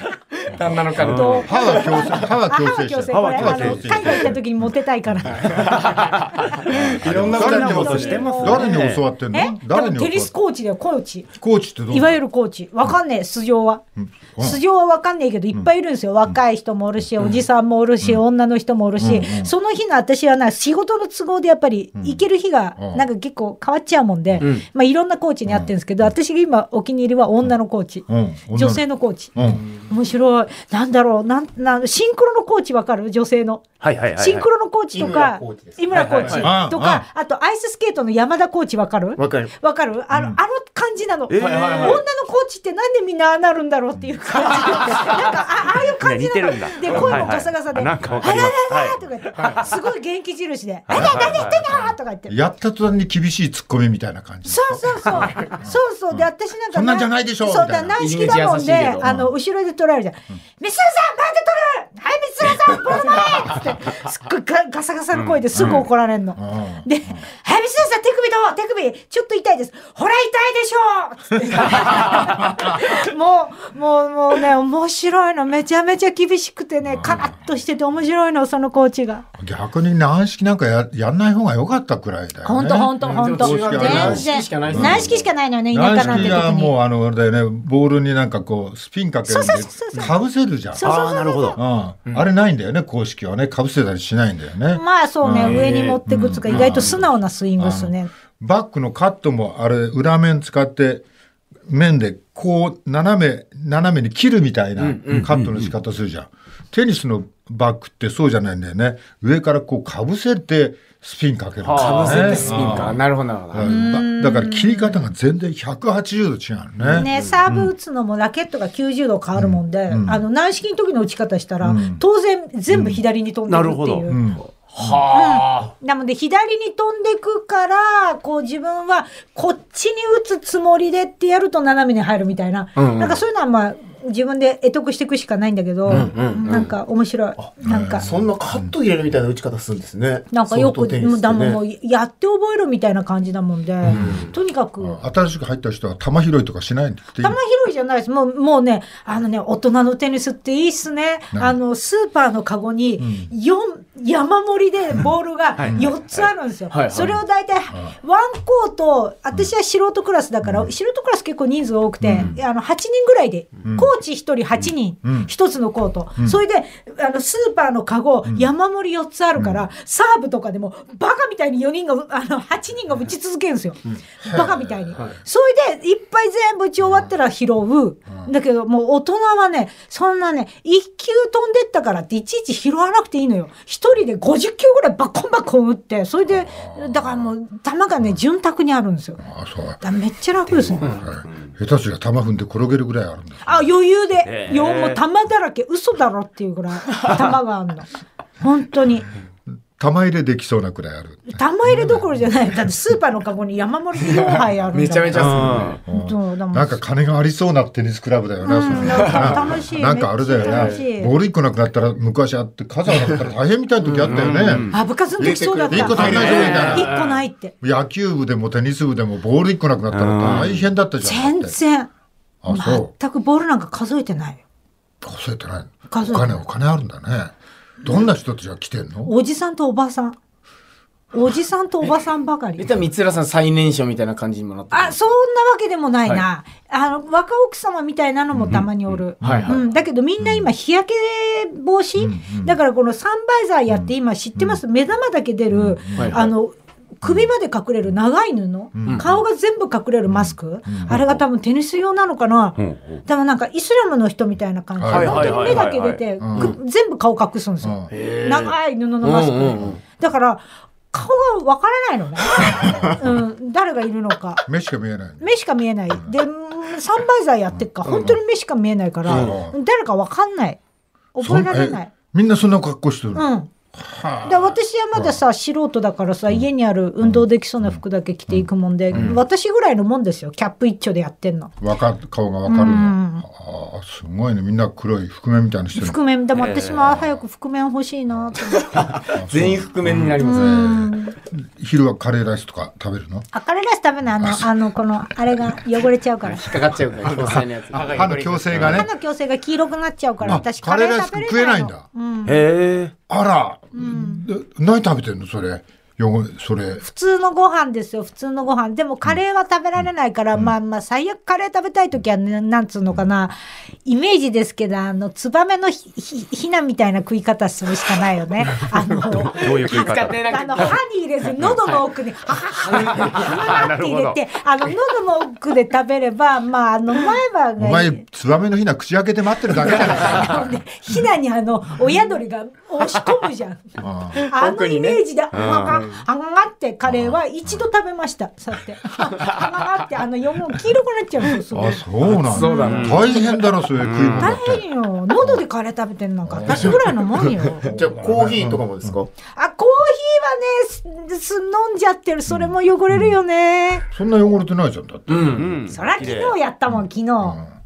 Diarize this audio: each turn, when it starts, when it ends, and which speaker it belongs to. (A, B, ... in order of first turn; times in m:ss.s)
0:00.5-0:02.2 A
0:00.9-0:01.5 B
0:01.0-0:05.8 C
0:01.4-0:05.8 D
0:03.1-0:04.2 B
0:05.5-0:08.6 A
0:05.7-0:09.0 B
0:06.7-0:10.3 D
0:07.3-0:08.7 C
0:09.3-0:11.3 C
0:11.4-0:12.2 D
0:11.9-0:13.8 C
0:14.0-0:14.6 D
0:14.4-0:29.3 C
0:19.0-0:19.5 D
0:22.0-0:22.2 D
0:22.8-0:23.0 D
0:25.5-0:26.1 D
0:28.1-0:28.8 D
0:29.3-0:29.6 D
0:29.9-0:52.3 C
0:33.8-0:34.4 B
0:34.9-0:35.8 E
0:35.9-0:36.4 B
0:36.0-0:36.5 A
0:36.3-0:37.0 D
0:39.2-0:39.5 E
0:40.1-0:40.4 D
0:41.3-0:42.0 B
0:41.4-0:42.0 A
0:46.0-0:49.7 B
0:46.9-0:47.4 D
0:50.9-0:51.6 B
0:50.9-0:58.3 D
0:54.4-1:19.2 C
0:58.0-0:59.0 A
0:59.0-0:59.3 D
1:05.1-1:05.8 B
1:05.5-1:07.2 D
1:16.8-1:17.4 D
1:19.4-1:25.1 D
1:22.4-1:26.7 C
1:23.0-1:25.3 A
1:25.7-1:31.0 D
1:26.0-1:26.4 A
1:29.2-1:30.1 C
1:30.7-1:31.6 C
1:30.8-1:31.6 B
1:31.6-1:41.0 D
1:34.7-1:38.1 C
1:35.4-1:37.0 A
1:41.7-1:57.7 D
1:44.8-1:45.3 A
1:45.1-1:45.7 B
1:51.6-1:53.0 B
1:51.7-1:53.8 A
1:53.6-1:55.0 C
1:56.8-1:57.3 A
1:56.9-2:04.2 C
1:59.3-2:00.2 D
2:01.6-2:02.0 D
2:02.7-2:03.0 D
2:03.5-2:04.3 B
2:04.1-2:05.1 D
2:04.7-2:05.7 A
2:05.1-2:18.0 C
2:12.8-2:13.2 A
2:15.9-2:16.7 A
2:17.6-2:18.7 D
2:18.0-2:21.6 E
2:20.3-2:25.0 C
2:23.8-2:27.4 D
2:23.9-2:24.3 A
2:27.2-3:09.2 C
2:31.3-2:31.6 D
2:33.0-2:33.3 D
2:35.6-2:36.2 B
2:35.6-2:35.9 D
2:36.7-2:37.1 A
2:36.9-2:37.2 D
2:40.4-2:40.7 D
2:42.0-2:42.4 D
2:43.6-2:43.9 D
2:45.0-2:45.3 D
2:49.4-2:49.7 D
2:54.2-2:55.2 D
2:56.8-2:57.1 D
3:06.3-3:07.3 D
3:09.2-3:09.8 D
3:09.8-3:10.9 C
3:10.7-3:13.6 D
3:13.4-3:17.9 C
3:14.2-3:15.0 B
3:18.4-3:19.1 C
3:19.8-3:22.3 D
3:21.3-3:26.8 C
3:24.0-3:25.8 A
3:25.1-3:25.8 B
3:25.8-3:34.7 D
3:28.4-3:31.1 C
3:28.8-3:29.5 A
3:30.4-3:30.8 A
3:33.8-3:37.1 A
3:34.0-3:34.7 B
3:34.7-3:37.5 C
3:35.3-3:36.0 E
3:35.7-3:37.0 D
3:36.1-3:36.8 B
3:37.6-3:41.6 D
3:39.9-3:40.6 B
3:40.2-3:40.5 A
3:41.0-3:41.9 C
3:42.4-3:42.9 D
3:42.5-3:44.4 C
3:45.0-3:49.1 D
3:45.9-3:46.3 C
3:49.0-3:50.2 C
3:51.1-3:52.7 C
3:52.6-3:55.0 A
3:54.7-4:24.4 C
3:58.3-3:58.7 D
3:59.2-3:59.6 D
3:59.2-3:59.6 A
4:00.2-4:00.5 D
4:02.0-4:02.6 D
4:03.7-4:04.6 D
4:05.5-4:06.3 D
4:06.0-4:06.3 A
4:07.0-4:07.3 D
4:08.7-4:09.1 D
4:10.1-4:11.0 D
4:12.6-4:13.0 B
4:14.8-4:16.6 D
4:14.9-4:15.7 A
4:15.1-4:16.0 B
4:17.6-4:17.9 D
4:17.9-4:19.8 A
4:22.5-4:23.2 D
4:24.4-4:25.4 D
4:25.2-4:30.6 C
4:25.9-4:26.2 D
4:27.8-4:28.1 A
4:29.0-4:29.6 D
4:29.1-4:29.4 A
4:31.1-4:31.9 C
4:31.2-4:35.2 D
4:33.1-4:33.5 C
4:34.2-4:41.5 C
4:37.0-4:39.2 D
4:41.6-4:46.0 D
4:42.4-4:43.2 C
4:45.8-4:48.8 C
4:46.3-4:47.0 B
4:48.1-4:48.4 D
4:48.6-4:50.6 A
4:48.9-4:53.3 D
4:50.2-4:51.2 C
4:53.3-4:56.6 C
4:54.2-4:54.5 D
4:56.2-4:58.8 A
4:57.2-4:58.9 D
4:58.5-5:02.4 C
5:00.2-5:01.8 D
5:02.2-5:02.9 B
5:03.1-5:06.8 D
5:03.7-5:04.2 C
5:06.8-5:28.0 C
5:19.2-5:20.8 A
5:19.3-5:20.7 B
5:22.6-5:23.6 A
5:22.9-5:24.2 B
5:27.6-5:30.6 D
5:29.6-5:43.3 C
5:33.8-5:34.2 D
5:34.2-5:35.0 A
5:35.3-5:35.8 B
5:35.6-5:36.0 A
5:36.8-5:37.6 D
5:41.5-5:44.6 D
5:42.0-5:43.5 A
5:42.6-5:43.0 B
5:43.8-5:44.3 B
5:44.1-5:47.7 C
5:46.2-5:48.9 D
5:47.6-5:49.1 E
5:49.3-5:53.8 C
5:52.3-5:53.2 D
5:53.9-5:55.6 D
5:55.1-5:55.4 A
5:55.3-5:56.3 B
5:55.7-5:57.4 C
5:56.7-5:57.5 D